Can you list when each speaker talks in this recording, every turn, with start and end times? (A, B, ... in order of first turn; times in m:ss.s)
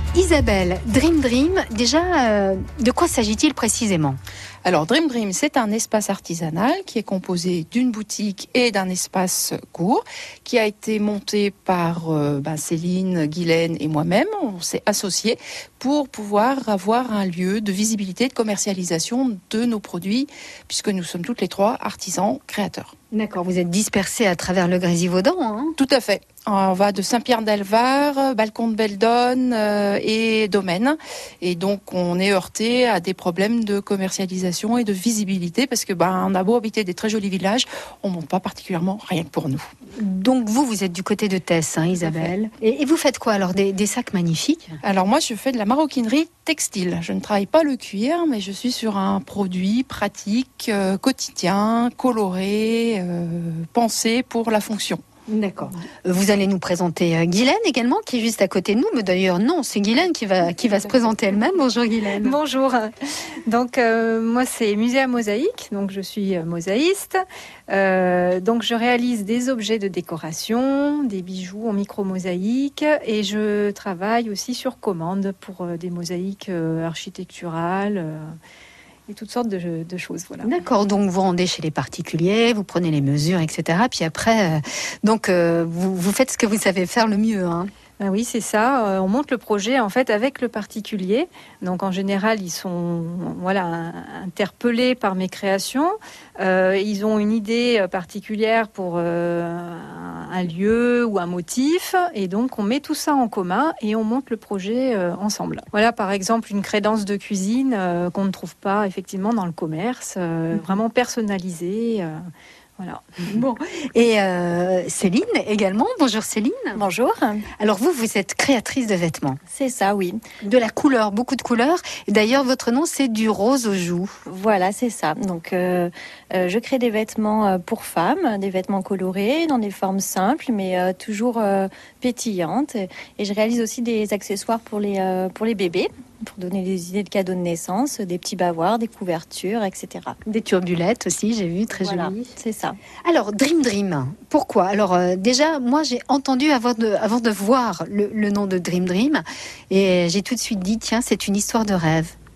0:00.1-0:04.2 A
0:04.6-0:22.9 B
0:23.1-0:25.8 A
0:25.8-0:39.7 B
0:40.0-0:44.8 A
0:42.0-0:42.3 B
0:44.8-0:55.0 B
0:55.3-1:02.4 A
1:02.2-1:02.9 C
1:03.5-1:18.4 C
1:19.1-1:20.5 C
1:20.4-1:27.7 A
1:28.0-1:52.3 C
1:52.8-1:53.2 C
1:53.3-1:56.8 A
1:56.8-1:57.4 D
1:57.6-1:59.4 A
1:59.5-2:00.2 D
2:00.4-2:04.2 A
2:04.2-2:20.2 D
2:20.2-2:22.3 A
2:21.8-2:22.8 D
2:23.0-2:32.2 A